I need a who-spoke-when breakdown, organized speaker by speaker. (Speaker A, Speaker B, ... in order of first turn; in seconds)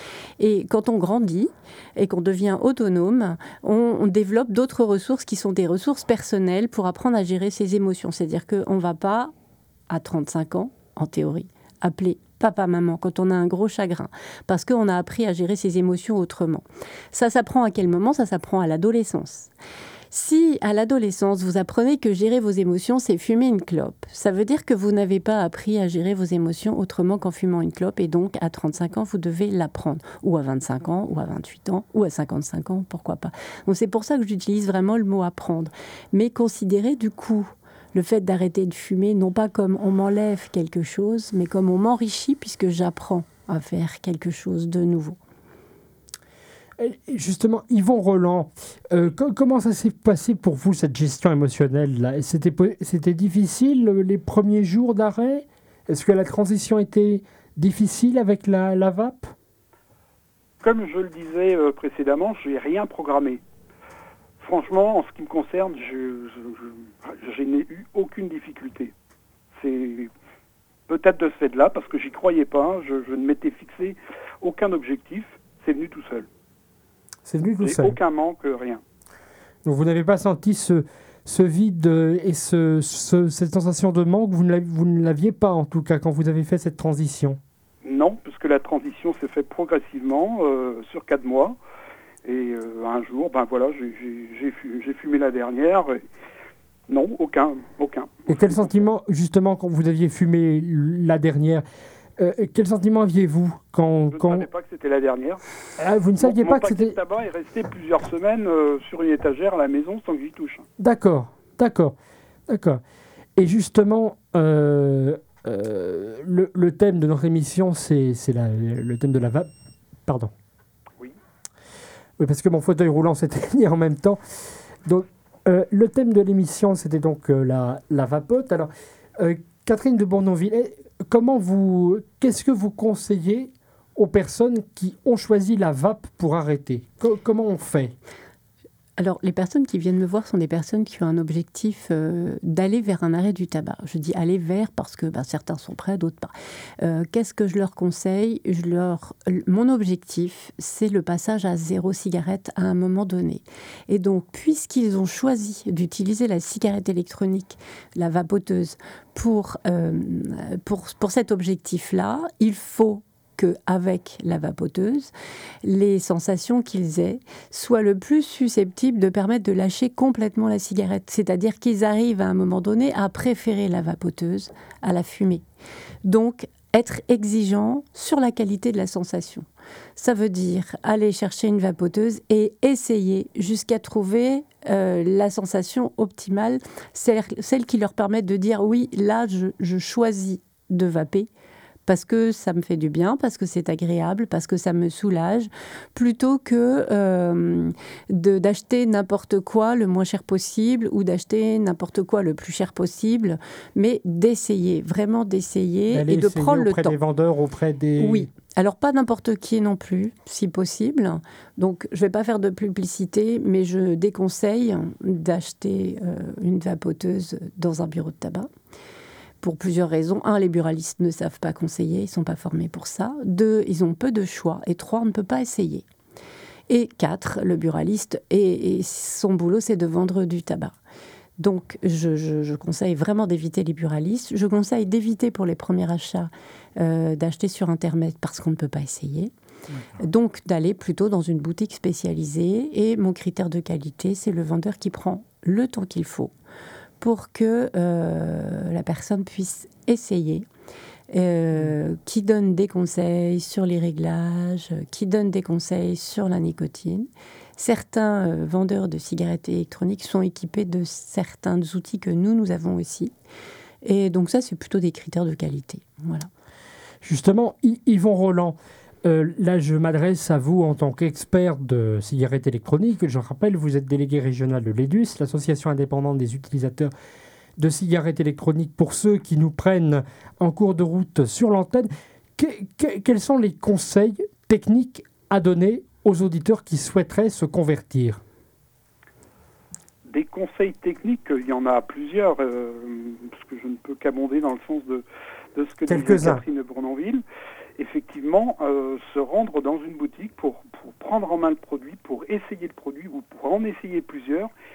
Speaker A: 0.4-9.3, 9.9-19.5, 20.1-45.2, 139.0-165.1, 165.6-175.4, 176.1-179.4, 180.0-191.3, 191.9-207.0, 208.0-218.5, 219.4-225.8, 226.7-230.8, 231.4-239.3, 240.0-246.3, 247.0-250.5, 251.1-263.1, 263.8-266.3
Speaker B: 46.8-59.3, 77.3-78.0, 79.7-87.4, 98.3-101.6, 102.2-104.5, 105.8-107.0, 110.8-112.0, 112.5-112.8, 113.4-119.5, 120.1-120.3, 122.2-124.2, 124.9-137.9, 205.9-208.3, 267.0-276.9, 277.6-288.2, 295.9-296.4
Speaker C: 60.6-63.4, 64.4-68.9, 69.6-70.1, 70.9-76.3, 77.6-78.8, 87.8-91.6, 92.2-96.0, 96.9-98.8, 104.1-105.4, 106.2-110.7, 290.1-295.0, 295.6-297.2, 297.8-304.5